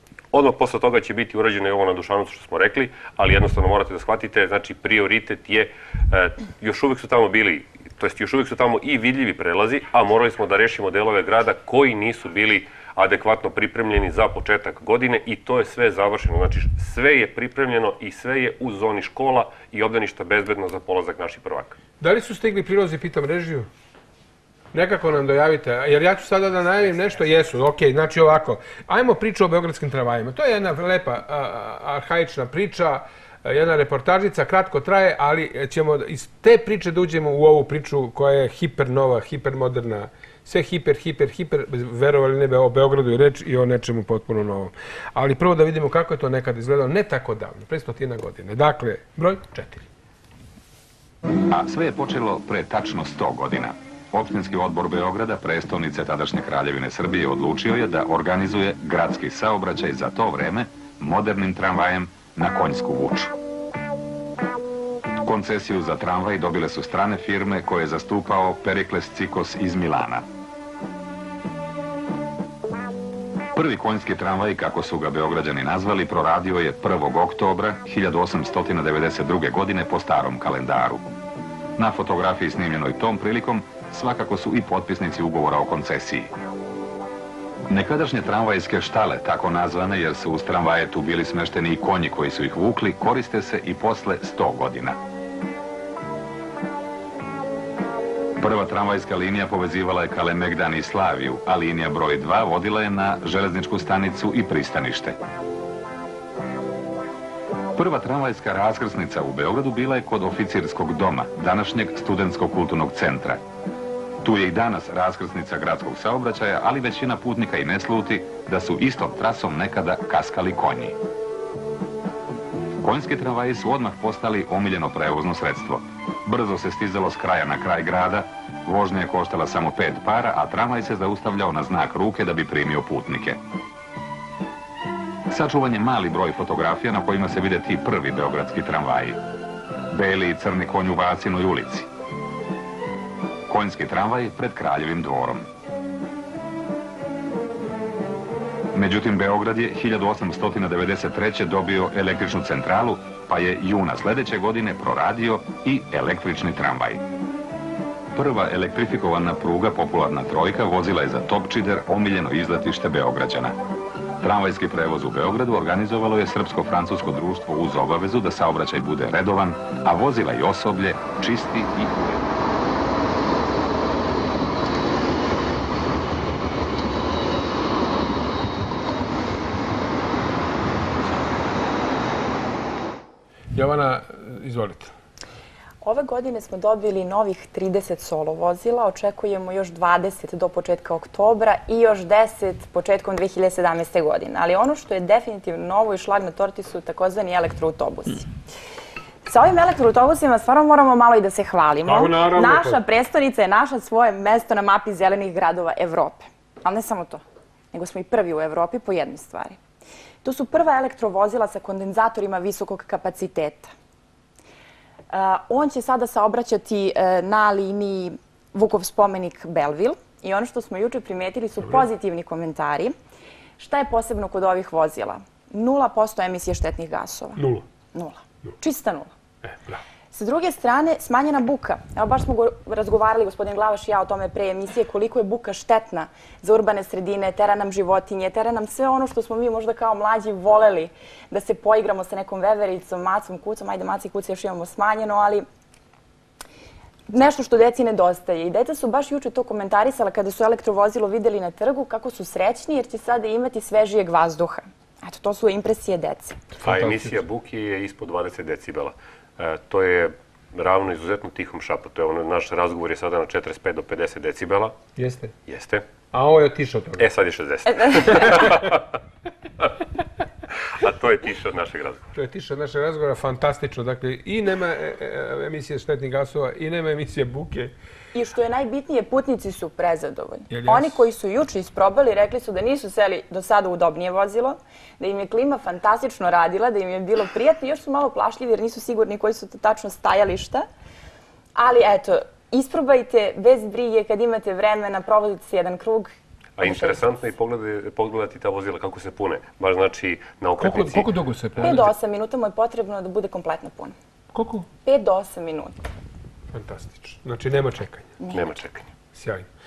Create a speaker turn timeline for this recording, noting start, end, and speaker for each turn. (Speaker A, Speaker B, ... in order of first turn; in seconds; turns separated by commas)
Speaker A: 0.3-21.8, Speaker B: 22.0-23.7, Speaker B: 24.7-49.9, Speaker C: 51.5-63.3, Speaker C: 65.2-70.2, Speaker C: 73.5-81.0, Speaker C: 81.8-86.3, Speaker C: 87.7-95.0, Speaker C: 98.4-105.2, Speaker C: 107.7-113.4, Speaker C: 114.2-121.0, Speaker C: 122.8-133.4, Speaker C: 135.3-139.2, Speaker C: 139.9-141.9, Speaker C: 143.5-145.5, Speaker C: 148.7-157.0, Speaker C: 158.1-163.5, Speaker C: 164.2-172.3, Speaker B: 183.5-184.9, Speaker D: 185.8-198.3, Speaker D: 199.2-207.2, Speaker B: 201.8-202.8, Speaker D: 207.7-209.6, Speaker D: 210.2-213.7, Speaker D: 215.1-222.9, Speaker D: 223.6-229.1, Speaker B: 227.4-227.6, Speaker B: 229.5-229.8, Speaker D: 230.1-245.4, Speaker D: 247.1-256.4, Speaker B: 256.6-257.2, Speaker A: 256.6-264.8, Speaker B: 265.0-265.3, Speaker A: 265.5-265.9, Speaker B: 266.1-267.1, Speaker A: 267.0-268.8, Speaker D: 267.8-268.1, Speaker B: 268.0-268.7, Speaker A: 270.7-272.0, Speaker B: 272.1-277.7, Speaker D: 278.1-290.7, Speaker B: 280.5-281.0, Speaker D: 291.6-297.0, Speaker A: 296.6-301.1, Speaker B: 300.6-301.9, Speaker D: 301.6-303.9, Speaker B: 304.3-304.7, Speaker D: 304.8-305.8, Speaker B: 306.5-308.1, Speaker A: 308.3-308.9, Speaker B: 309.1-309.5